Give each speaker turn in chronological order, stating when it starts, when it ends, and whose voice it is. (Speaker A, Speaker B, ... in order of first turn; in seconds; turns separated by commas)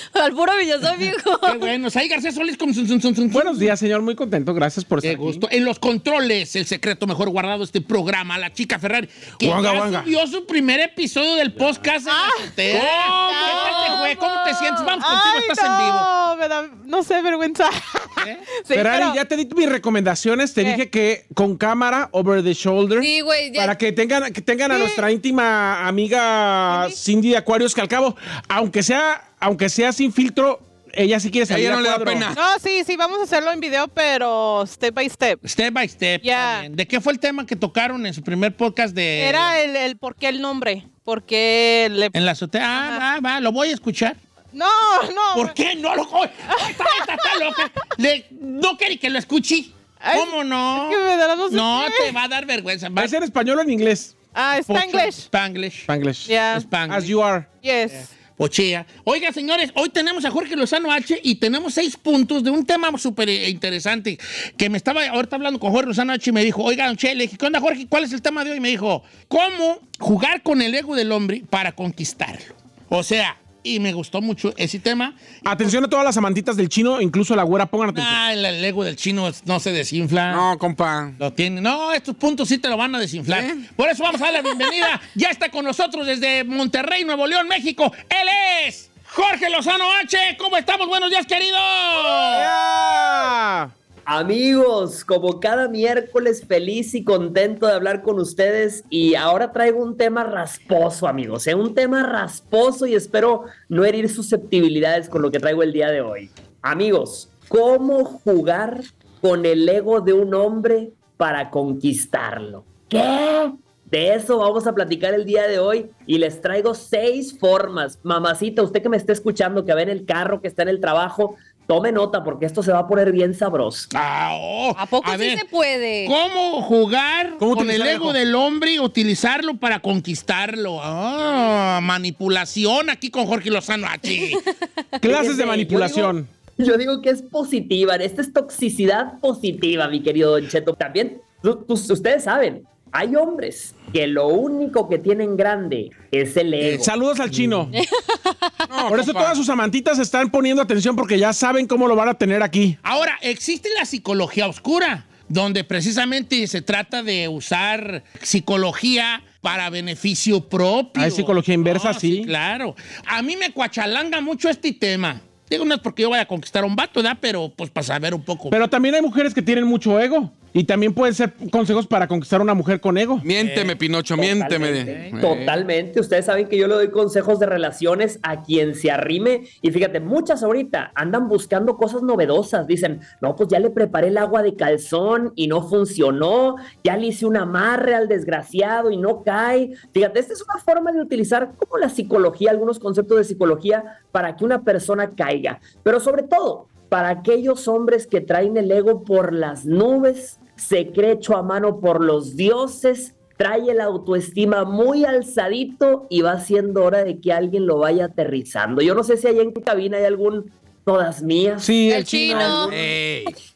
Speaker A: 0.1-1.7, Speaker B: 1.4-3.8, Speaker C: 3.3-5.4, Speaker B: 5.0-16.1, Speaker D: 9.4-10.1, Speaker E: 12.1-14.2, Speaker C: 13.1-13.4, Speaker A: 13.8-14.9, Speaker E: 14.9-19.2, Speaker B: 18.2-18.5, Speaker C: 18.7-32.3, Speaker A: 23.0-23.8, Speaker E: 24.7-25.1, Speaker E: 26.7-27.0, Speaker D: 31.5-32.4, Speaker E: 32.3-35.4, Speaker B: 35.4-39.6, Speaker E: 36.2-36.7, Speaker E: 39.2-42.2, Speaker B: 42.1-44.2, Speaker E: 42.7-43.0, Speaker E: 44.5-45.6, Speaker B: 45.3-53.1, Speaker E: 46.5-47.6, Speaker E: 50.0-52.2, Speaker C: 53.0-54.2, Speaker E: 54.3-55.3, Speaker B: 54.7-55.9, Speaker C: 55.9-57.5, Speaker E: 56.2-56.7, Speaker B: 56.5-57.2, Speaker E: 57.6-58.1, Speaker B: 57.9-75.7, Speaker C: 75.5-78.2, Speaker B: 77.9-80.5, Speaker D: 80.3-81.2, Speaker B: 81.2-92.5, Speaker D: 83.3-83.7, Speaker C: 92.3-93.7, Speaker F: 94.1-123.9, Speaker B: 123.9-125.4, Speaker A: 124.8-126.1, Speaker B: 126.0-134.5, Speaker C: 127.4-128.2, Speaker C: 135.0-136.3, Speaker F: 135.1-146.9, Speaker C: 146.7-147.8, Speaker D: 148.7-149.4, Speaker C: 148.9-152.8, Speaker B: 152.8-168.6, Speaker C: 161.0-162.3, Speaker C: 168.5-173.3, Speaker D: 173.2-175.6, Speaker B: 173.4-173.8, Speaker F: 174.2-213.0, Speaker B: 174.8-175.1, Speaker C: 211.6-212.7, Speaker A: 211.9-212.7, Speaker D: 212.6-213.4